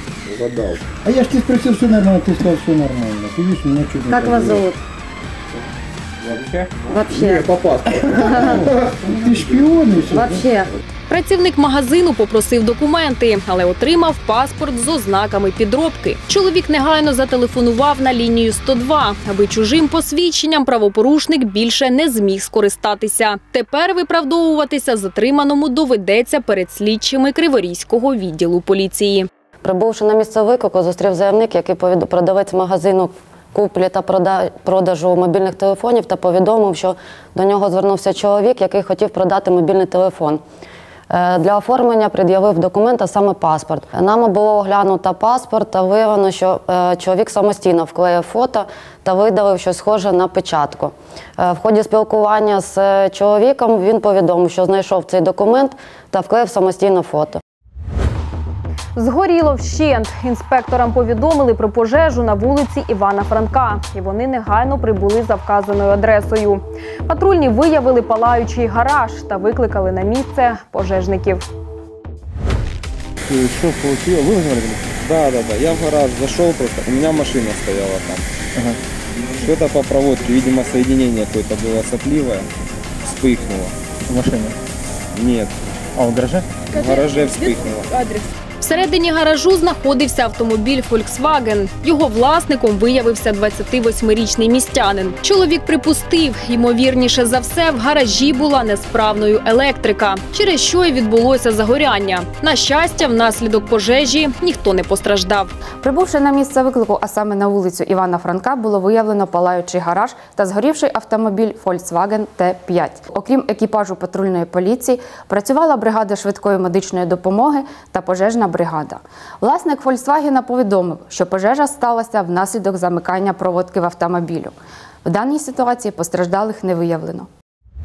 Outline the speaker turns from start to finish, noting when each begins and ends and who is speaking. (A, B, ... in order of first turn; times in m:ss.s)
0:01.0-0:04.7 A
0:04.1-0:04.8 B
0:06.9-0:07.5 B
0:08.3-0:08.6 B
0:08.5-0:10.5 A
0:10.1-0:10.7 B
0:11.1-0:29.3 C
0:29.6-0:40.4 B
0:41.1-0:57.4 B
0:59.0-1:11.4 C
1:15.0-1:18.3 D
1:19.4-1:22.5 D
1:23.1-1:23.8 D
1:25.1-1:25.7 D
1:26.7-1:27.9 D
1:28.6-1:45.5 C
1:45.8-2:07.3 E